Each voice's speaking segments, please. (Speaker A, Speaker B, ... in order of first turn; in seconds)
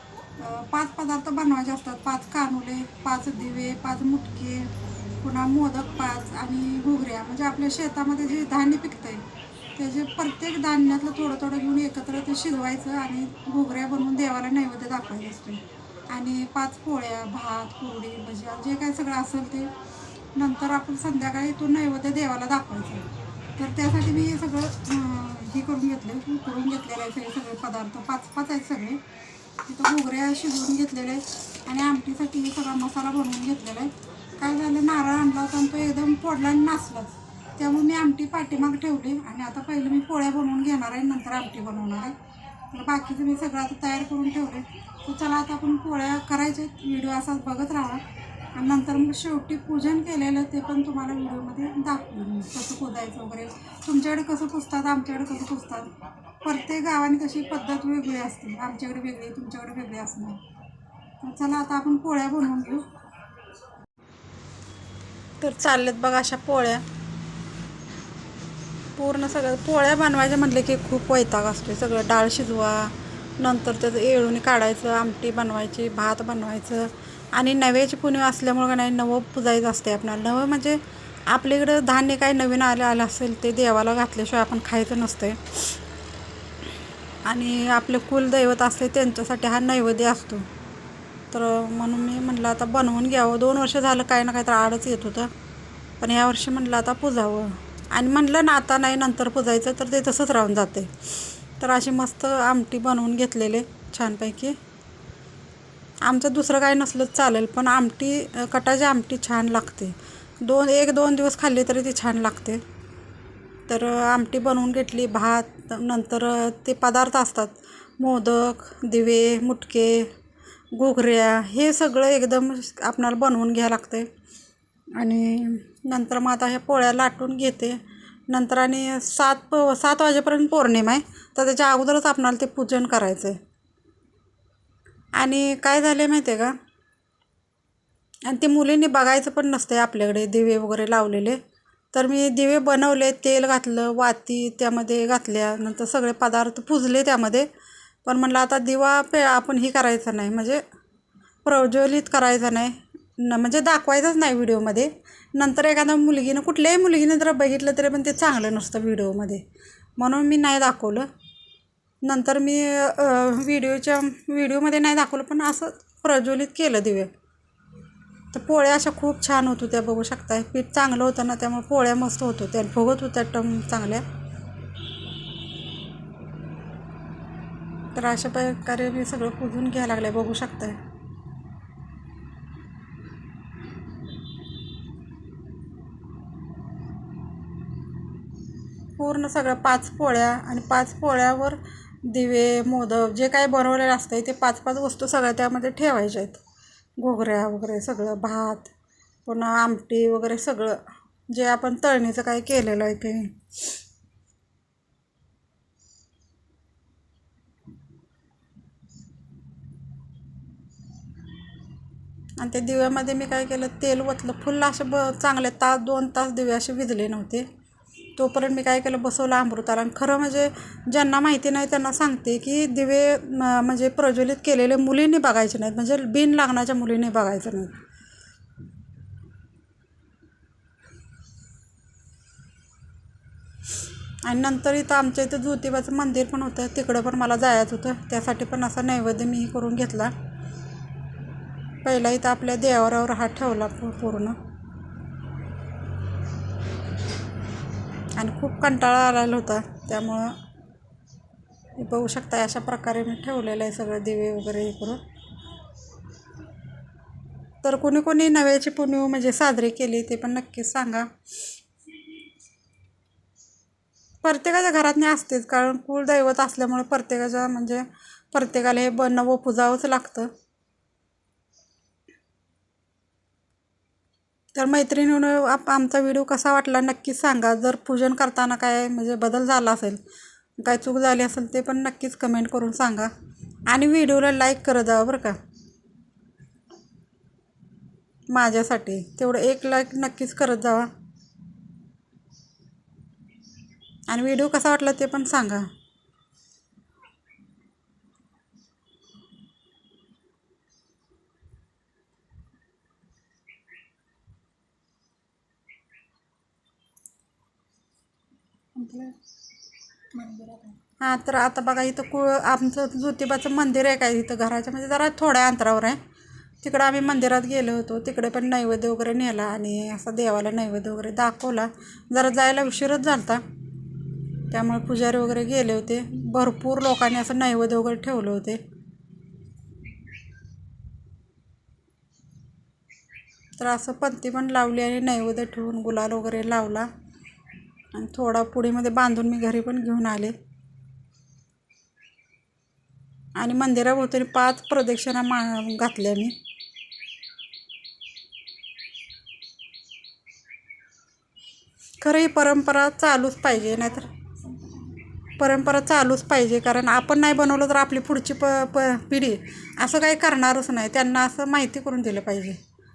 Speaker A: 0.4-9.2, 9.8-19.7, 20.4-23.1, 23.6-29.0, 29.7-42.2, 42.7-48.0, 48.5-60.4, 61.2-62.9, 65.4-66.8, 69.0-85.5, 87.2-90.5, 91.3-95.3, 96.0-100.9, 101.6-104.6, 106.0-112.6, 113.7-120.1, 120.7-124.1, 125.0-133.4, 135.2-136.6, 138.3-141.4, 141.9-147.5, 148.1-150.6, 151.4-159.4, 160.0-161.1, 162.0-167.1, 168.3-174.0, 177.9-180.8, 189.0-196.4, 197.0-198.7, 199.3-203.4, 212.4-217.5, 218.2-227.8, 234.2-240.1, 241.8-244.4, 248.2-250.3, 251.8-255.0, 257.6-261.1, 264.2-270.3, 274.6-280.0, 280.6-283.1, 283.7-285.4, 288.3-290.9, 294.1-295.7, 308.8-309.1, 310.1-316.0, 316.6-323.4, 324.5-328.6, 333.6-336.9, 337.9-340.4, 343.4-346.4, 352.0-354.1, 355.4-362.6